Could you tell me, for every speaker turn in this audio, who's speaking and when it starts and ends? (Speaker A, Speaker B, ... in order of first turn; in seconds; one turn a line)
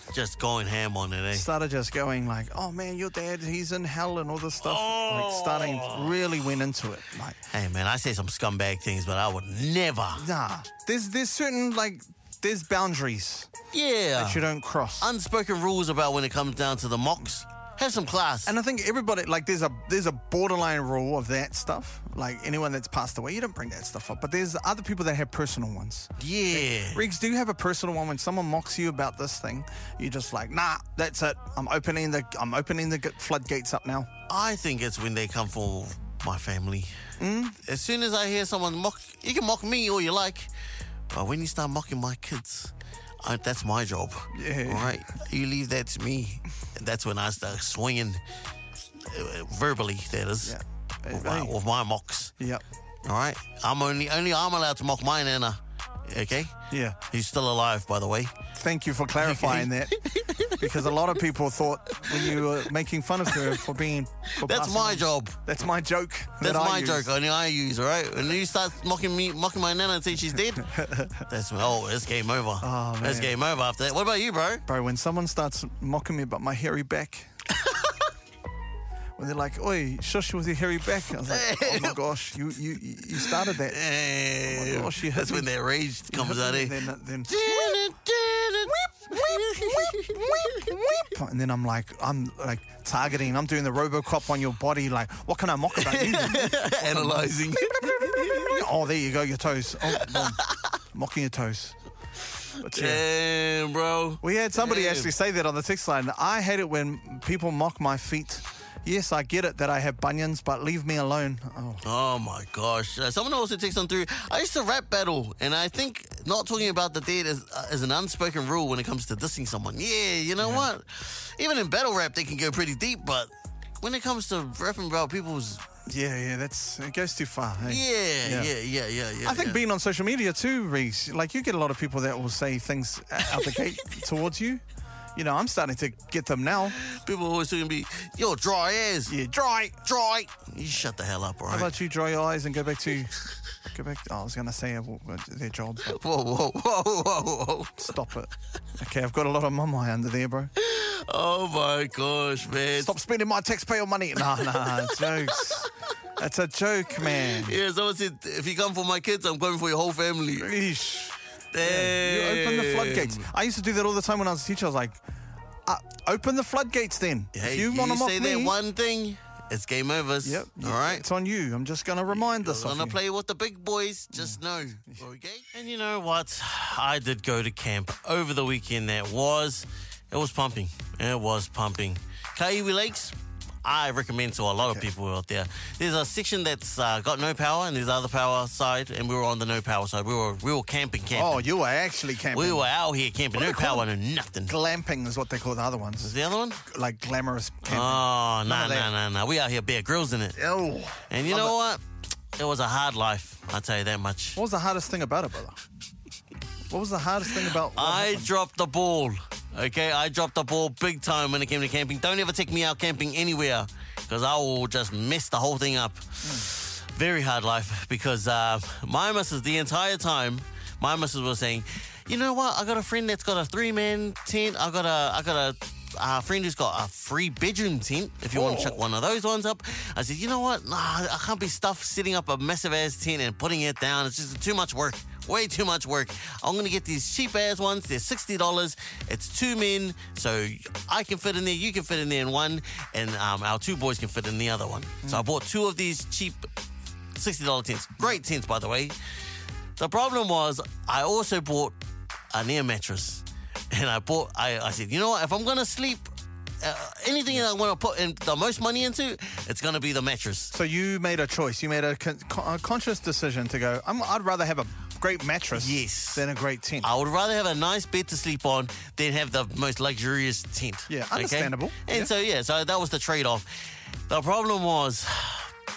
Speaker A: 0.1-1.5
Speaker B: 1.3-7.4
Speaker A: 4.6-6.3
Speaker A: 7.5-10.2
Speaker B: 10.2-13.5
Speaker A: 13.7-14.5
Speaker B: 14.2-15.1
Speaker A: 15.0-18.5
Speaker B: 18.5-34.1
Speaker A: 26.2-27.1
Speaker A: 34.3-36.9
Speaker B: 37.2-37.6
Speaker A: 37.6-40.5
Speaker A: 41.1-48.2
Speaker B: 44.3-45.0
Speaker A: 49.0-50.6
Speaker B: 50.4-51.5
Speaker A: 51.1-52.3
Speaker B: 52.4-52.6
Speaker A: 53.0-56.6
Speaker B: 56.7-57.0
Speaker A: 57.1-58.4
Speaker B: 58.5-67.1
Speaker A: 59.2-60.7
Speaker A: 62.0-62.6
Speaker A: 63.3-63.5
Speaker A: 64.3-65.4
Speaker A: 66.4-74.7
Speaker B: 70.6-71.2
Speaker B: 72.6-73.4
Speaker B: 74.7-77.3
Speaker A: 77.6-78.0
Speaker B: 79.2-83.8
Speaker A: 81.2-82.0
Speaker A: 83.2-91.0
Speaker B: 84.4-85.5
Speaker B: 86.1-87.8
Speaker B: 88.7-101.8
Speaker A: 95.8-98.6
Speaker A: 99.9-100.8
Speaker A: 102.6-105.1
Speaker B: 102.6-103.0
Speaker B: 104.2-111.8
Speaker A: 111.8-125.7
Speaker B: 120.4-120.7
Speaker B: 125.9-128.5
Speaker A: 127.6-129.6
Speaker B: 129.2-134.6
Speaker B: 135.2-136.8
Speaker A: 136.8-139.2
Speaker B: 139.1-139.8
Speaker A: 139.8-141.7
Speaker B: 141.5-143.2
Speaker B: 143.7-146.0
Speaker A: 145.8-147.9
Speaker B: 147.8-150.5
Speaker A: 150.6-152.9
Speaker B: 152.8-157.6
Speaker A: 154.3-155.7
Speaker A: 157.1-160.5
Speaker B: 160.4-165.0
Speaker A: 161.5-163.3
Speaker B: 165.7-168.6
Speaker A: 167.3-171.1
Speaker B: 170.2-173.0
Speaker A: 172.1-191.4
Speaker B: 184.6-184.9
Speaker B: 191.1-192.7
Speaker A: 192.3-194.5
Speaker B: 193.3-193.9
Speaker B: 194.5-198.9
Speaker A: 196.0-196.6
Speaker A: 197.7-200.4
Speaker B: 200.4-201.6
Speaker A: 201.1-201.8
Speaker A: 202.4-204.4
Speaker B: 204.4-205.6
Speaker B: 206.7-208.3
Speaker A: 207.7-246.5
Speaker B: 216.2-216.5
Speaker B: 228.3-228.8
Speaker A: 247.2-249.0
Speaker A: 249.8-251.8
Speaker A: 252.3-256.1
Speaker A: 256.6-260.5
Speaker B: 260.5-266.9
Speaker A: 265.6-266.2
Speaker A: 266.8-275.5
Speaker B: 270.9-272.1